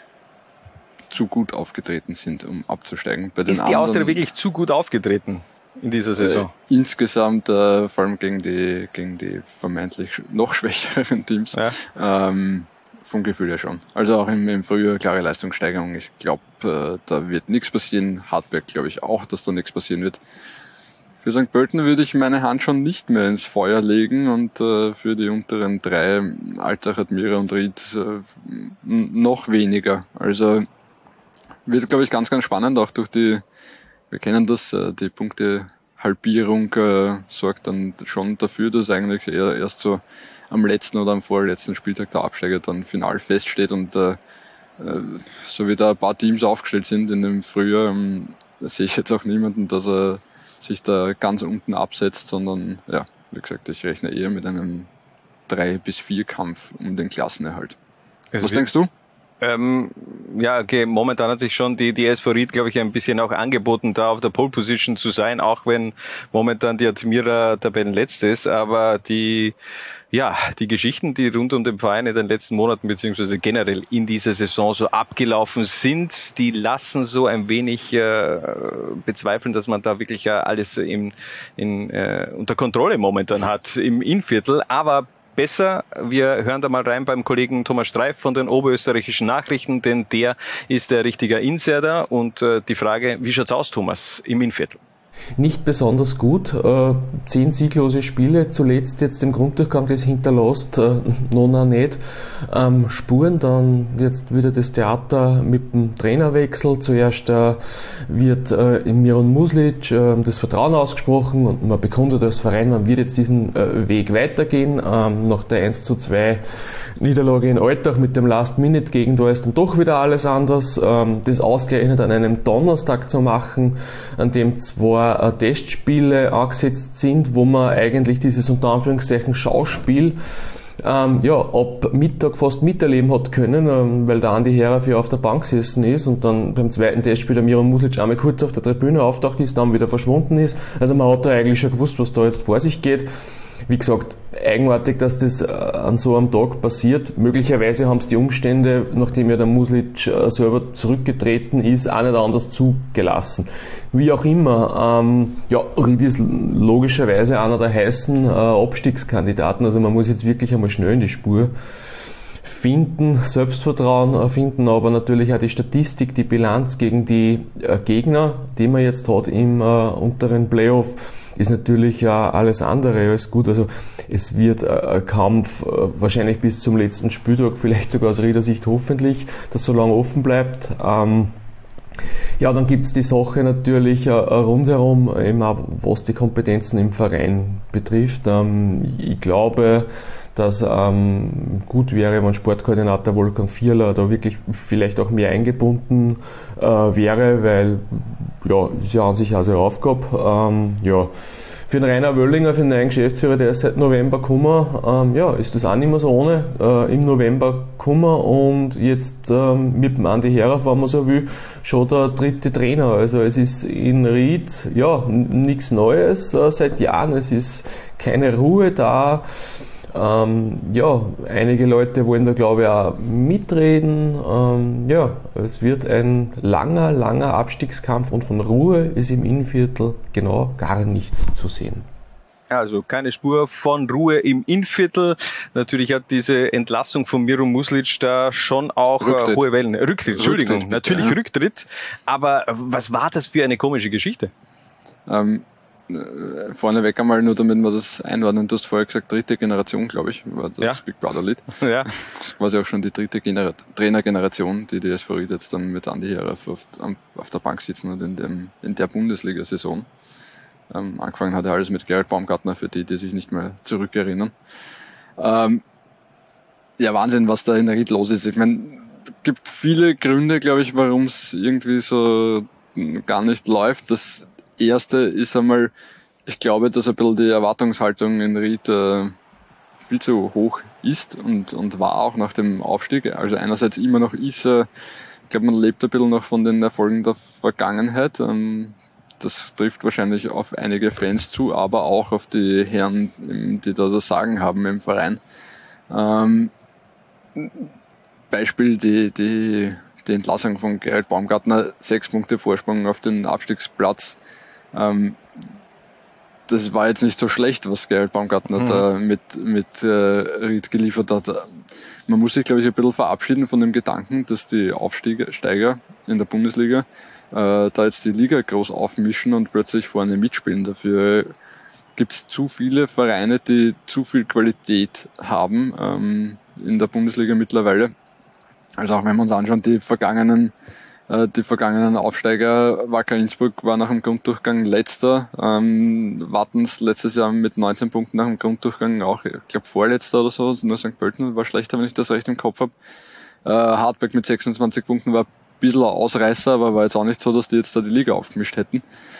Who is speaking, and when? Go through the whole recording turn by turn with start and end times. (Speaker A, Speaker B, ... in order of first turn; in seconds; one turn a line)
Speaker A: 1.1-4.2
Speaker B: 3.5-6.5
Speaker A: 6.2-20.2
Speaker A: 21.2-30.7
Speaker A: 31.6-33.4
Speaker A: 34.1-44.2
Speaker A: 44.8-54.9
Speaker A: 55.5-57.8
Speaker B: 58.3-58.7
Speaker A: 58.4-58.9
Speaker B: 59.4-69.5
Speaker B: 70.1-94.8
Speaker C: 95.4-116.4
Speaker C: 117.0-130.2
Speaker C: 130.8-143.1
Speaker C: 143.7-161.5
Speaker C: 162.4-181.3
Speaker C: 182.4-201.1
Speaker C: 201.6-219.2
Speaker C: 219.9-231.9
Speaker B: 232.5-244.3
Speaker A: 239.0-239.4
Speaker A: 240.1-241.2
Speaker A: 245.1-259.9
Speaker B: 251.5-251.9
Speaker A: 260.7-264.3
Speaker A: 265.2-265.6
Speaker A: 266.8-275.7
Speaker A: 276.3-279.1
Speaker A: 279.8-284.7
Speaker A: 285.3-295.2
Speaker A: 295.9-296.5
Speaker A: 297.3-297.7
Speaker A: 298.3-304.2
Speaker A: 304.7-305.2
Speaker A: 306.5-321.3
Speaker B: 308.5-308.8
Speaker A: 321.9-327.9
Speaker A: 328.8-330.5
Speaker A: 331.1-342.7
Speaker A: 343.4-348.8